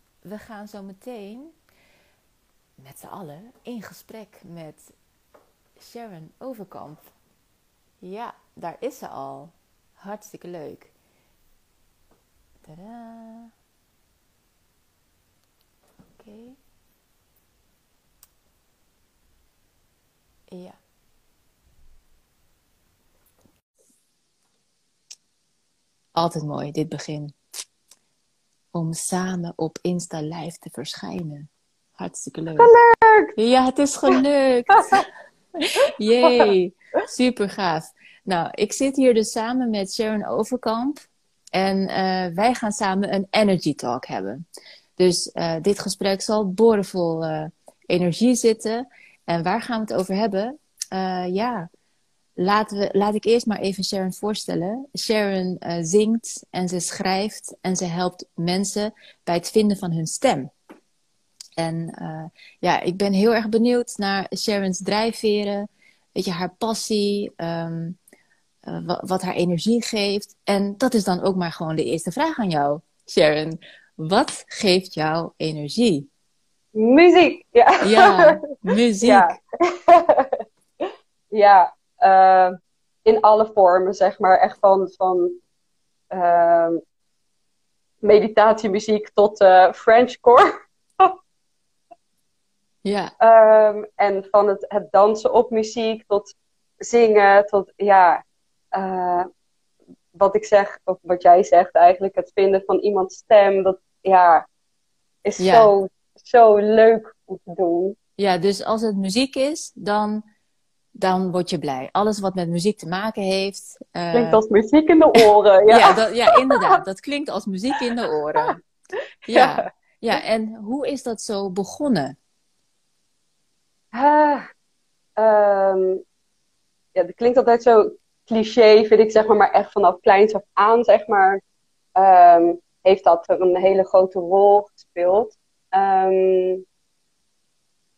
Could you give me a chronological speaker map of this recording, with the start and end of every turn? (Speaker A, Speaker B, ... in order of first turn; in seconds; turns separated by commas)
Speaker A: 0.2-1.5, Speaker A: 2.8-4.9, Speaker A: 5.8-7.0, Speaker A: 8.0-10.9, Speaker A: 12.6-13.5, Speaker A: 16.2-16.6, Speaker A: 20.5-20.8, Speaker A: 26.1-27.3, Speaker A: 28.7-32.7, Speaker B: 32.6-33.3, Speaker A: 33.4-35.0, Speaker A: 35.6-41.0, Speaker B: 36.2-36.5, Speaker A: 41.5-44.4, Speaker A: 45.0-51.7, Speaker A: 52.4-60.5, Speaker A: 61.6-68.0, Speaker A: 68.7-76.1, Speaker B: 76.7-78.3, Speaker A: 77.8-79.4, Speaker B: 79.0-80.4, Speaker B: 81.3-85.4, Speaker B: 86.1-86.8, Speaker B: 88.0-91.1, Speaker A: 92.8-93.1, Speaker B: 93.2-98.2, Speaker B: 98.7-99.3, Speaker B: 100.1-104.5, Speaker B: 105.2-108.0, Speaker A: 105.4-105.7, Speaker A: 108.2-110.2, Speaker A: 111.0-114.4, Speaker B: 114.1-116.0, Speaker A: 115.7-118.6, Speaker B: 119.3-119.6, Speaker A: 119.3-122.2, Speaker B: 123.9-124.5, Speaker B: 125.2-126.0, Speaker B: 126.9-131.4, Speaker B: 131.9-136.6